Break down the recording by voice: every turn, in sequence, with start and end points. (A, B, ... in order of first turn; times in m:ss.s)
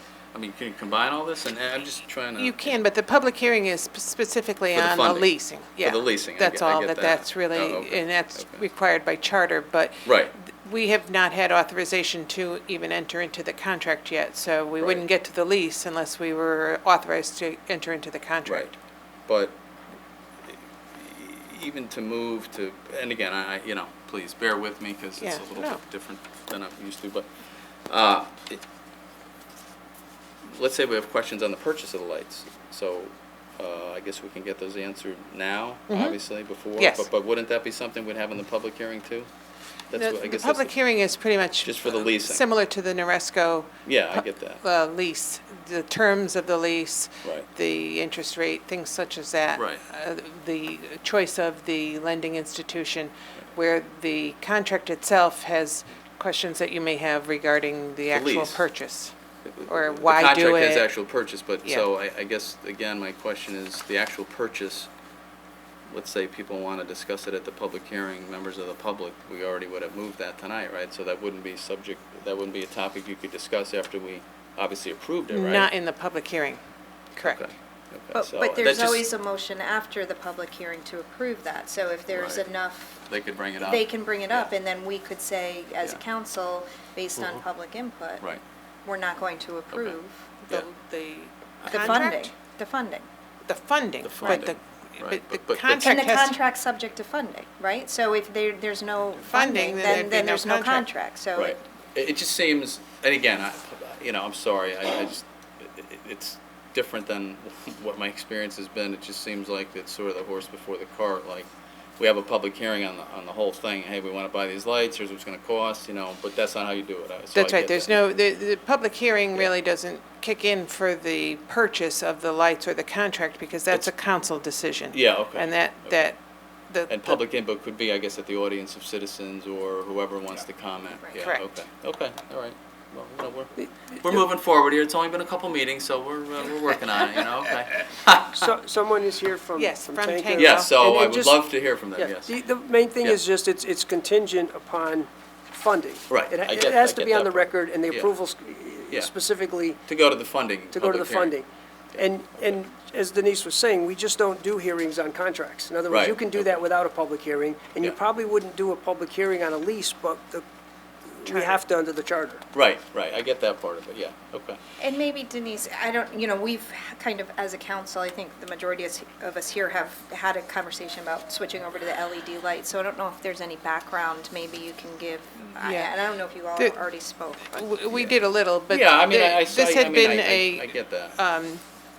0:00.3-0:02.8 A
0:02.4-0:18.7 B
0:04.7-0:08.6 A
0:10.0-0:10.3 A
0:14.8-0:15.0 A
0:18.4-0:18.7 A
0:19.3-0:19.6 A
0:20.9-0:27.3 A
0:25.2-0:25.8 B
0:27.8-0:28.6 A
0:30.4-0:39.3 A
0:35.9-0:36.2 B
0:36.7-0:37.1 B
0:39.9-0:40.8 A
0:39.9-0:59.1 B
0:41.6-0:42.5 A
0:43.8-0:44.6 A
0:47.2-0:47.5 A
0:49.5-0:49.8 A
0:58.1-0:58.6 A
0:59.4-1:04.9 A
0:59.7-1:00.9 B
1:05.9-1:15.7 A
1:15.3-1:16.6 B
1:17.2-1:17.4 B
1:17.2-1:19.0 A
1:18.1-1:23.0 C
1:22.1-1:24.5 A
1:23.6-1:28.3 C
1:28.8-1:30.3 C
1:29.7-1:30.0 A
1:30.4-1:32.3 B
1:31.6-1:33.1 C
1:33.5-1:36.4 B
1:34.0-1:36.0 A
1:35.7-1:41.6 C
1:39.2-1:40.9 B
1:41.4-1:58.0 A
1:57.3-2:06.2 B
2:04.9-2:06.0 A
2:06.7-2:07.2 B
2:06.9-2:18.5 A
2:18.3-2:29.8 D
2:19.6-2:20.7 B
2:20.4-2:22.4 A
2:26.1-2:28.1 A
2:29.8-2:31.4 A
2:30.7-2:40.4 D
2:35.9-2:36.6 A
2:41.1-2:42.4 D
2:42.5-2:44.6 A
2:44.8-2:57.6 C
2:55.6-2:55.9 B
2:57.6-3:01.6 B
2:58.7-3:01.2 A